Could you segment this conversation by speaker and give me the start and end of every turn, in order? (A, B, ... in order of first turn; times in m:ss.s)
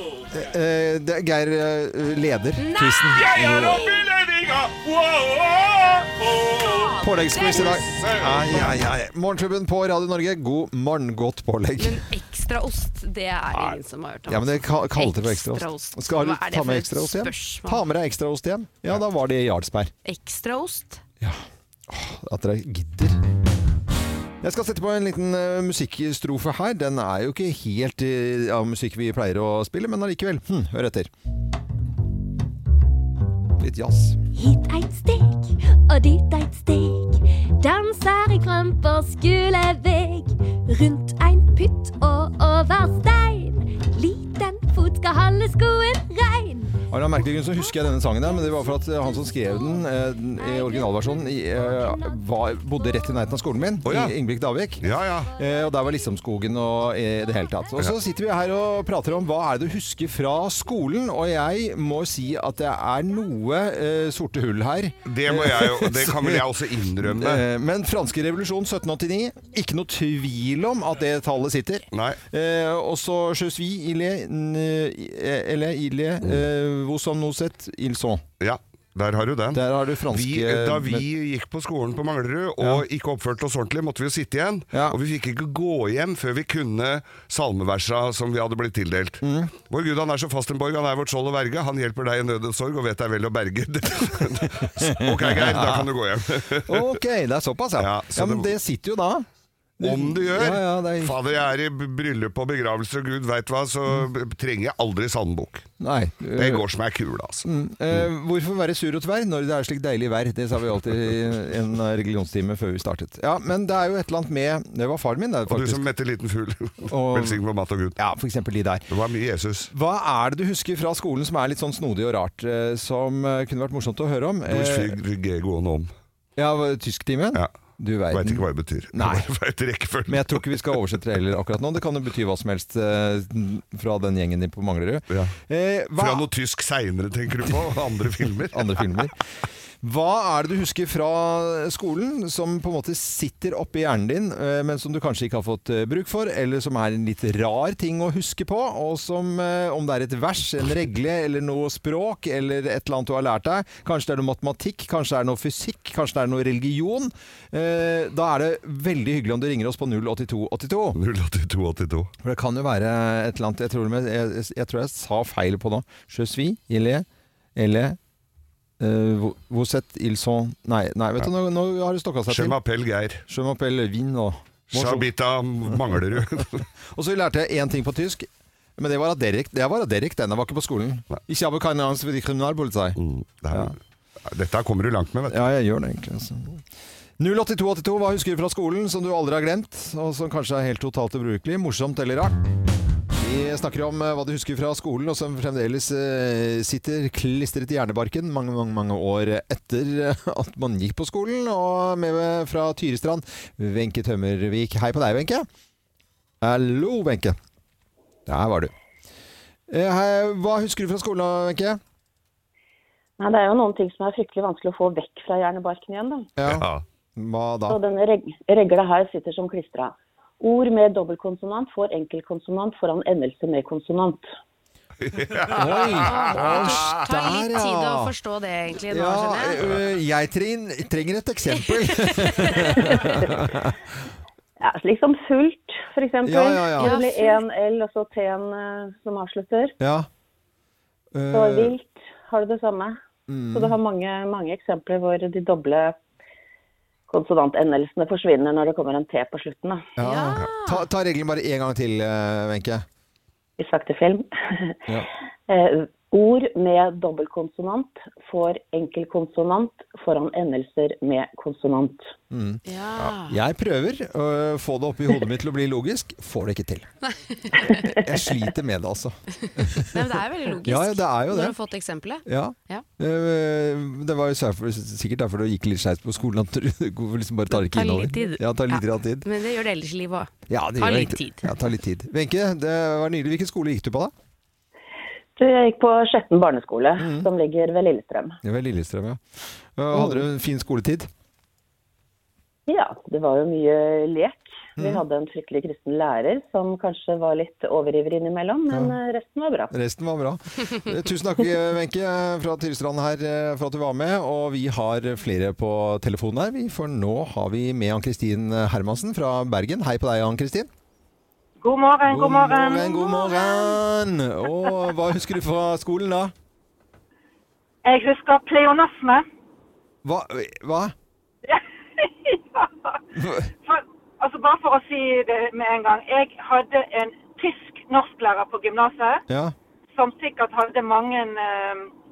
0:00.3-0:03.8 A
0:02.6-0:04.0 B
0:03.1-0:06.8 C
0:06.5-0:08.1 B
0:07.0-0:12.0 A
0:08.0-0:08.8 C
0:11.8-0:17.8 B
0:14.3-0:19.9 A
0:20.0-0:21.0 B
0:21.2-0:23.2 A
0:24.4-0:31.1 A
0:33.6-0:34.2 A
0:34.3-0:46.9 D
0:46.9-1:06.5 A
0:47.4-0:53.3 D
0:53.8-0:54.1 C
0:54.8-0:55.3 C
0:55.5-0:56.0 D
0:57.2-0:57.8 D
1:05.0-1:07.4 C
1:07.0-1:18.2 A
1:11.9-1:12.2 C
1:18.4-1:37.0 C
1:19.5-1:21.0 A
1:29.2-1:29.5 A
1:34.8-1:35.9 A
1:36.6-1:39.2 A
1:37.8-1:38.5 C
1:39.8-1:41.2 A
1:39.8-1:45.7 C
1:45.8-1:46.6 A
1:46.3-1:48.0 C
1:47.4-1:55.8 A
1:55.5-1:58.0 C
1:56.8-1:57.4 A
1:58.0-1:58.9 A
1:58.9-1:59.7 C
1:59.7-2:05.0 A
2:04.5-2:05.9 C
2:06.4-2:09.3 A
2:08.1-2:10.4 C
2:10.1-2:16.3 A
2:16.0-2:19.1 C
2:18.5-2:19.1 A
2:19.8-2:41.0 A
2:40.9-2:42.1 C
2:42.2-2:48.0 A
2:48.8-2:52.6 A
2:52.3-2:53.2 C
2:53.3-2:55.1 A
2:54.7-2:56.6 C
2:55.7-2:56.0 A
2:56.9-3:03.0 A
3:03.0-3:05.4 C
3:05.3-3:06.6 A
3:07.2-3:12.4 A
3:13.2-3:25.4 A
3:26.4-3:27.4 A
3:28.2-3:28.7 A
3:29.7-3:31.8 A
3:33.2-3:36.3 E
3:36.4-3:37.8 A
3:36.4-3:36.8 C
3:37.7-3:44.3 E
3:45.0-3:46.9 C
3:45.5-3:49.6 B
3:45.5-3:48.1 A
3:48.9-3:53.8 A
3:51.8-3:53.0 B
3:54.6-3:59.7 E
3:56.2-3:57.0 A
3:56.8-3:57.4 B
3:59.8-4:00.1 A
4:01.1-4:01.7 A
4:01.3-4:03.0 E
4:03.3-4:03.8 A
4:03.5-4:06.0 E
4:07.1-4:09.8 E
4:10.0-4:12.8 A
4:10.0-4:10.8 B
4:13.6-4:14.8 E
4:15.5-4:22.1 E
4:22.3-4:26.9 A
4:22.6-4:23.4 B
4:27.0-4:27.9 B
4:28.0-4:30.1 A
4:29.4-4:32.8 B
4:30.6-4:31.5 A
4:32.2-4:39.3 A
4:37.5-4:41.4 B
4:40.5-4:44.1 A
4:45.4-4:48.4 E
4:47.0-4:47.3 A
4:48.4-4:49.2 A
4:49.8-4:51.1 A
4:52.7-4:59.7 E
4:54.8-4:55.0 A
4:58.7-4:59.0 A
4:59.7-5:10.7 A
5:11.6-5:13.7 F
5:12.0-5:16.3 A
5:17.8-5:19.2 F
5:20.0-5:20.9 A
5:21.4-5:23.0 F
5:23.1-5:23.5 A
5:23.6-5:29.2 F
5:29.3-5:29.5 A
5:29.9-5:31.9 F